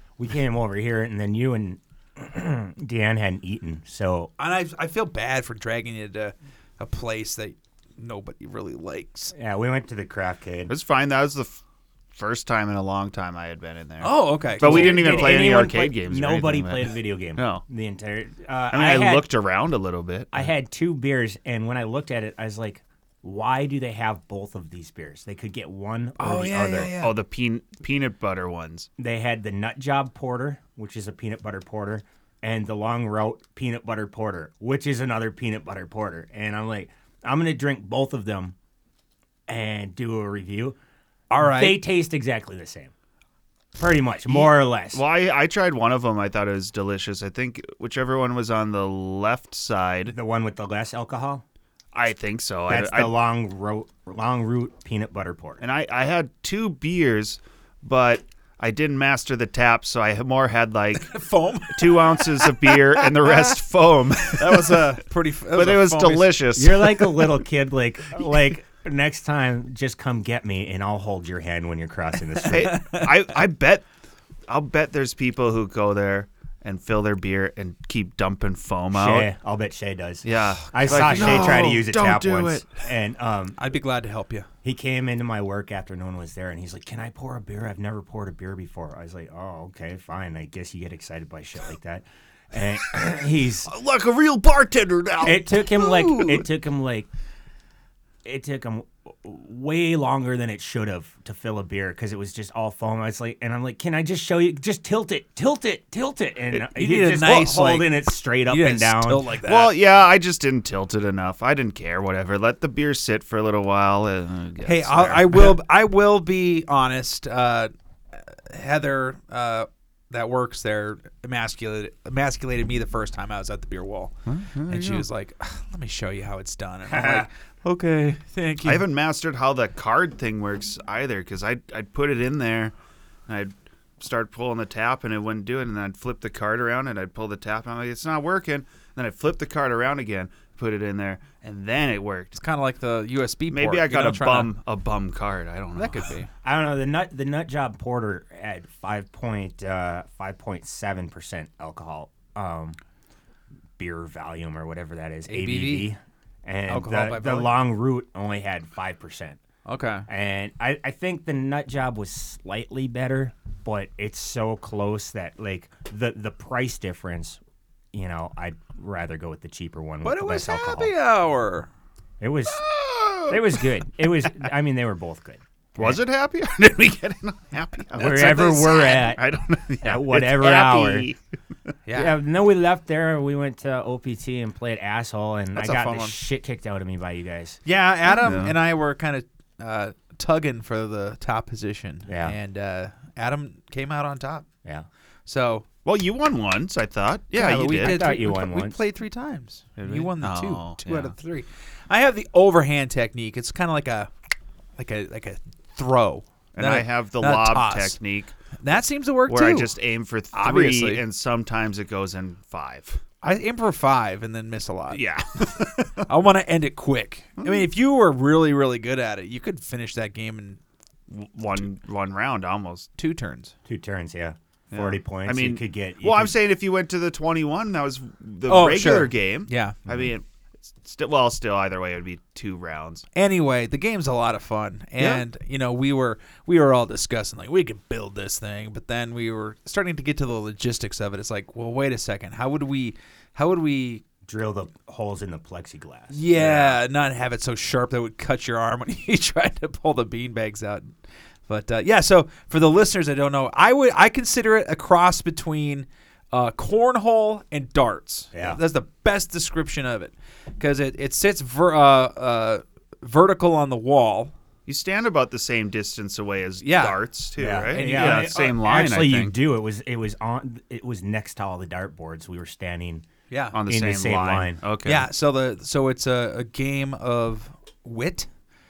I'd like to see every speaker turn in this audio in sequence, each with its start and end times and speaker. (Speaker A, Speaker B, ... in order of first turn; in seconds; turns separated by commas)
Speaker A: 0.2-4.3, Speaker B: 4.4-9.3, Speaker A: 9.3-10.7, Speaker C: 10.7-11.6, Speaker C: 12.1-17.6, Speaker B: 14.0-15.5, Speaker A: 14.6-19.3, Speaker C: 18.7-20.5, Speaker A: 20.3-26.9, Speaker B: 26.2-27.1, Speaker C: 27.0-28.9, Speaker A: 29.0-38.5, Speaker A: 39.5-40.8, Speaker B: 41.3-41.8, Speaker A: 41.4-42.9, Speaker A: 43.8-45.0, Speaker C: 44.3-50.1, Speaker A: 50.1-51.4, Speaker C: 51.9-53.2, Speaker A: 52.7-55.6, Speaker C: 55.6-61.1, Speaker B: 61.0-63.6, Speaker C: 61.7-65.0, Speaker B: 64.3-66.4, Speaker C: 65.5-67.2, Speaker A: 66.5-72.8, Speaker B: 72.5-73.1, Speaker C: 72.5-73.9, Speaker C: 74.5-79.3, Speaker A: 78.9-83.6, Speaker C: 80.2-82.7, Speaker B: 81.1-81.4, Speaker B: 83.6-84.5, Speaker A: 84.6-93.7, Speaker C: 93.6-96.4, Speaker A: 95.2-97.1, Speaker A: 98.2-109.2, Speaker B: 106.5-109.7, Speaker C: 109.4-115.5, Speaker B: 114.6-124.1, Speaker C: 124.2-125.1, Speaker B: 124.7-128.8, Speaker A: 126.9-127.3, Speaker C: 128.6-132.7, Speaker C: 133.3-142.3, Speaker B: 142.3-144.5, Speaker C: 143.5-146.2, Speaker B: 145.7-146.3, Speaker A: 146.4-152.8, Speaker A: 153.8-159.4, Speaker B: 155.3-155.9, Speaker B: 156.7-157.5, Speaker B: 159.7-160.1, Speaker A: 160.1-167.4, Speaker A: 167.9-170.9, Speaker B: 170.0-171.7, Speaker A: 172.2-172.6, Speaker C: 172.5-173.6, Speaker A: 173.3-176.0, Speaker C: 175.8-181.2, Speaker A: 177.9-179.2, Speaker A: 179.8-181.1, Speaker B: 181.8-182.2, Speaker A: 181.9-187.6, Speaker B: 185.5-186.1, Speaker B: 187.7-194.4, Speaker C: 188.1-188.6, Speaker A: 192.1-192.3, Speaker B: 195.2-195.6, Speaker C: 195.8-198.0, Speaker B: 197.3-204.1, Speaker A: 197.7-198.8, Speaker C: 199.8-201.1, Speaker B: 204.8-208.0, Speaker C: 206.6-208.3, Speaker B: 208.6-209.7, Speaker C: 209.3-213.0, Speaker B: 210.3-211.0, Speaker B: 213.2-215.0, Speaker C: 214.9-216.1, Speaker B: 216.1-220.6, Speaker C: 217.4-217.7, Speaker C: 221.1-222.9, Speaker B: 223.0-223.5, Speaker A: 223.7-226.3, Speaker C: 224.7-233.0, Speaker B: 228.5-229.9, Speaker B: 233.1-244.0, Speaker C: 235.0-235.2, Speaker A: 244.2-246.8, Speaker B: 246.1-250.9, Speaker B: 251.5-264.3, Speaker A: 258.3-258.6, Speaker C: 264.6-269.3, Speaker B: 266.6-268.4, Speaker A: 267.4-273.1, Speaker B: 273.3-273.6, Speaker C: 273.5-275.1, Speaker A: 273.7-274.6, Speaker B: 274.9-278.3